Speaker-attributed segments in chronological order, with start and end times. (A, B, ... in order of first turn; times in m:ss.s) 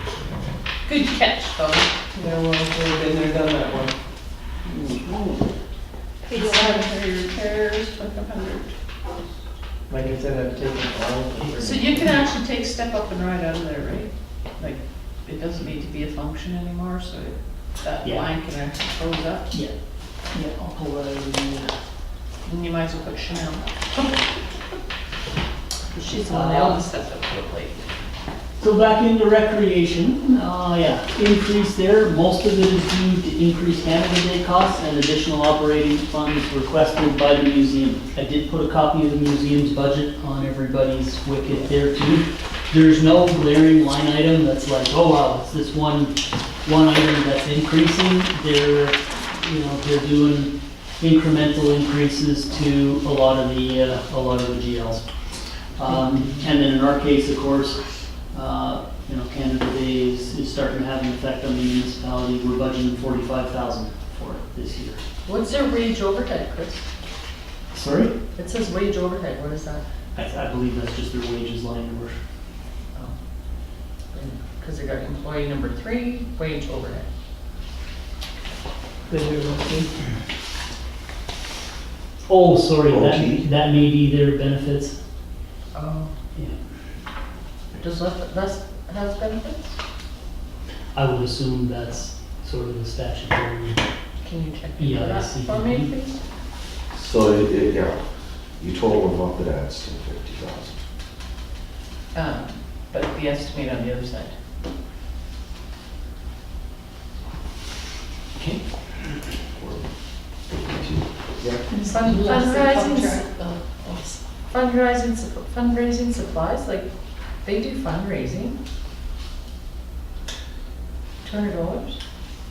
0:00.2-0:00.5 A
0:00.8-0:01.9 B
0:02.1-0:03.9 A
0:04.7-0:05.4 C
0:06.3-0:08.7 B
0:06.3-0:06.8 D
0:09.9-0:12.2 A
0:11.5-0:19.4 B
0:18.0-0:18.3 C
0:20.3-0:21.8 C
0:22.4-0:24.0 B
0:25.9-0:27.7 B
0:26.3-0:26.8 C
0:28.6-0:55.0 C
0:55.8-0:57.8 C
0:58.3-1:05.0 C
1:05.2-1:06.8 B
1:07.7-1:08.1 C
1:08.4-1:09.8 B
1:10.1-1:12.2 C
1:14.1-1:17.0 B
1:19.1-1:19.9 A
1:22.3-1:25.0 C
1:22.9-1:23.4 E
1:25.7-1:26.1 B
1:27.8-1:29.8 B
1:30.9-1:33.8 C
1:34.2-1:36.2 B
1:34.8-1:35.9 C
1:36.9-1:38.0 E
1:38.6-1:40.8 E
1:42.1-1:44.3 B
1:48.4-1:48.6 C
1:49.6-1:49.8 E
1:50.5-1:51.6 E
1:51.7-1:54.2 D
1:51.8-1:53.2 B
1:54.5-1:56.9 B
1:57.4-1:58.6 B
2:01.2-2:02.0 B